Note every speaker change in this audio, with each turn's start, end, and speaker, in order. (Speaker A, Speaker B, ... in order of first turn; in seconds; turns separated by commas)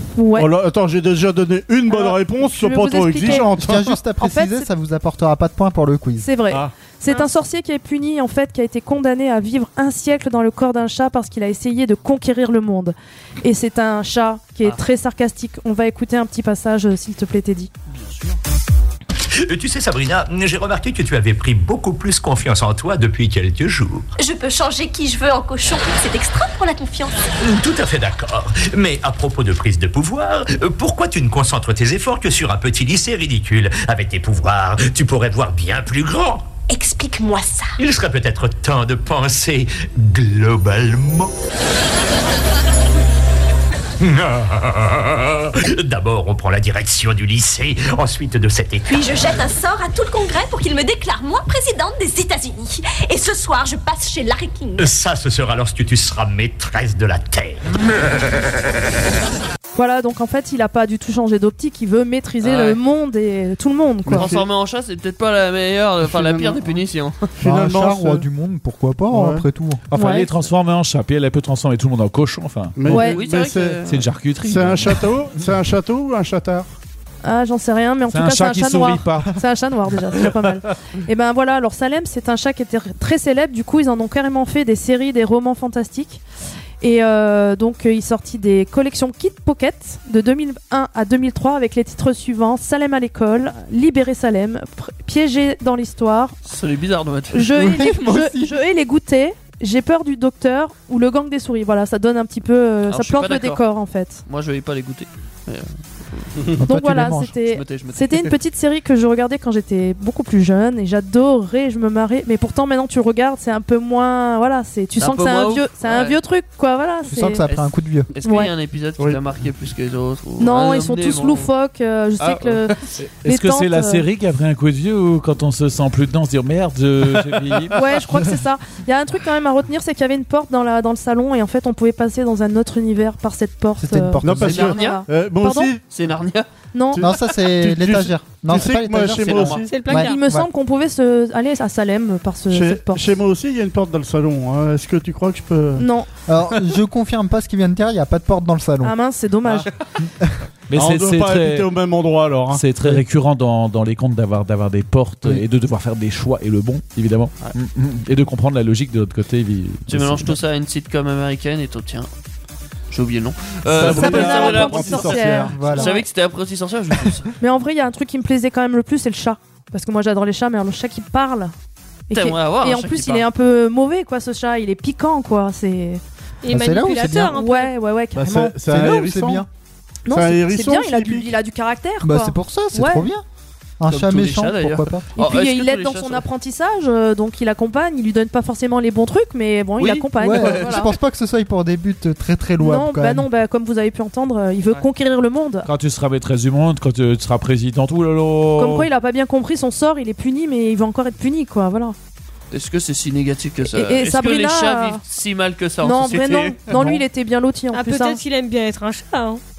Speaker A: 0.1-0.5, Speaker B: 0.3-4.0, Speaker A: 1.9-3.5, Speaker C: 3.4-6.3, Speaker A: 4.2-4.7, Speaker A: 6.2-17.7, Speaker D: 17.9-18.4, Speaker E: 19.4-24.1, Speaker F: 24.2-27.2, Speaker E: 27.4-36.5, Speaker F: 36.7-37.7, Speaker E: 37.8-41.3, Speaker E: 44.0-48.9, Speaker F: 48.9-54.9, Speaker E: 54.8-57.6, Speaker A: 59.8-64.3, Speaker D: 62.4-62.8, Speaker B: 64.1-64.5, Speaker D: 64.1-67.3, Speaker B: 66.1-66.8, Speaker B: 67.4-68.2, Speaker C: 67.4-69.8, Speaker B: 69.1-69.4, Speaker G: 69.9-73.0, Speaker A: 69.9-70.3, Speaker B: 72.8-73.8, Speaker A: 72.9-73.2, Speaker D: 73.1-74.1, Speaker G: 73.8-75.1, Speaker B: 74.4-76.7, Speaker A: 77.2-86.2, Speaker G: 78.1-79.4, Speaker A: 86.8-96.4, Speaker D: 96.5-97.5, Speaker A: 97.3-104.2, Speaker C: 97.5-98.5, Speaker D: 102.9-103.6, Speaker D: 104.3-106.5, Speaker C: 106.6-107.3, Speaker A: 106.6-117.4, Speaker D: 107.5-108.3, Speaker D: 115.0-116.2, Speaker C: 117.1-118.1, Speaker D: 117.5-121.5, Speaker A: 118.2-118.5, Speaker A: 120.4-124.0, Speaker D: 122.2-122.6, Speaker G: 123.0-128.0, Speaker A: 127.7-135.7, Speaker C: 133.8-134.7, Speaker B: 134.2-135.8, Speaker D: 134.4-135.0, Speaker D: 135.9-136.4, Speaker A: 136.7-137.1, Speaker B: 136.9-139.8, Speaker C: 137.0-140.5, Speaker D: 139.1-139.7, Speaker H: 139.7-140.2, Speaker A: 139.9-143.1, Speaker B: 142.5-145.9, Speaker A: 145.8-146.1, Speaker C: 146.3-148.9, Speaker A: 148.8-149.7, Speaker G: 150.7-151.7, Speaker B: 150.7-153.0, Speaker G: 152.5-160.4, Speaker D: 159.9-162.1, Speaker D: 162.9-167.3, Speaker B: 163.7-165.5, Speaker A: 163.8-166.1, Speaker C: 165.3-165.9, Speaker A: 167.4-171.5, Speaker A: 172.1-176.0, Speaker D: 172.1-173.3, Speaker H: 176.4-177.7, Speaker C: 176.5-177.4, Speaker A: 177.0-178.6, Speaker B: 178.1-179.4, Speaker C: 178.6-179.5, Speaker A: 180.1-183.1, Speaker B: 180.1-181.3, Speaker C: 182.0-183.2, Speaker C: 183.8-185.1, Speaker D: 183.9-186.2, Speaker A: 185.2-190.9, Speaker D: 189.8-190.7, Speaker C: 190.2-193.3, Speaker A: 192.6-195.7, Speaker G: 195.7-198.9, Speaker A: 198.6-201.9, Speaker D: 202.5-206.6, Speaker A: 203.7-205.0, Speaker A: 205.8-208.2, Speaker B: 206.7-207.0, Speaker H: 207.7-209.4